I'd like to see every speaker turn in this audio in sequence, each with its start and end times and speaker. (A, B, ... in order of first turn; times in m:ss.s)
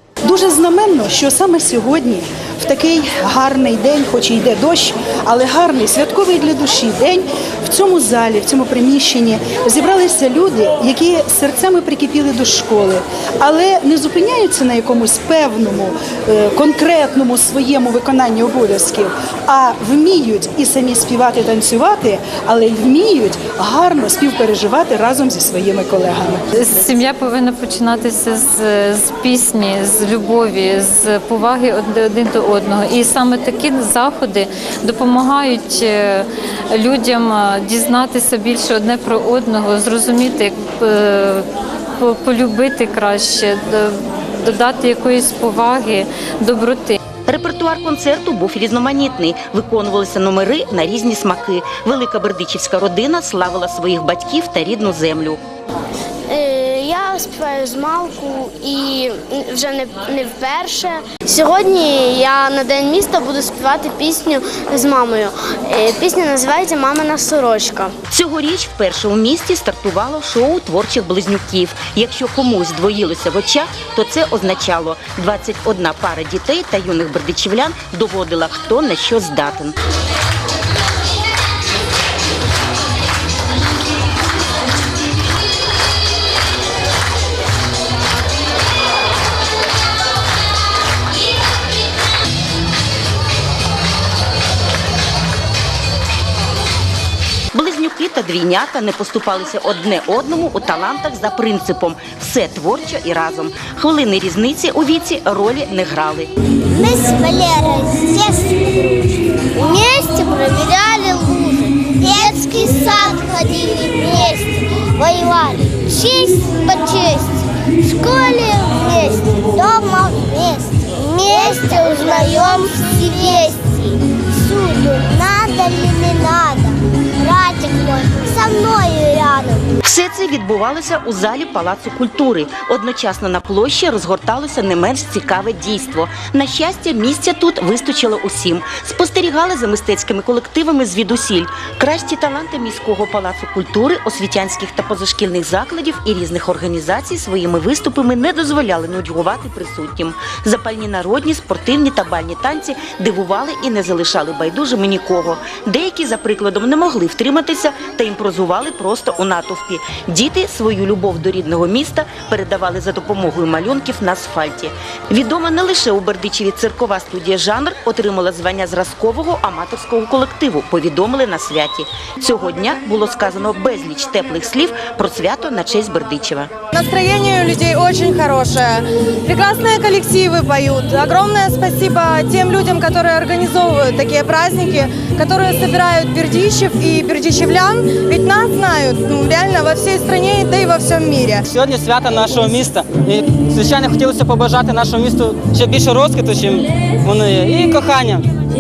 0:00.2-0:26.4 A
0:26.5-0:41.5 B
0:42.0-0:47.0 B
0:47.3-0:55.4 C
0:56.3-1:07.9 D
1:08.1-1:19.8 C
1:37.5-1:46.3 C
1:46.8-1:47.4 E
1:48.0-1:48.3 E
1:52.0-1:53.2 E
1:56.1-1:57.0 E
1:57.9-1:59.9 E
2:01.2-2:03.5 E
2:09.8-2:56.5 C
2:56.7-3:11.4 F
3:11.5-3:18.2 G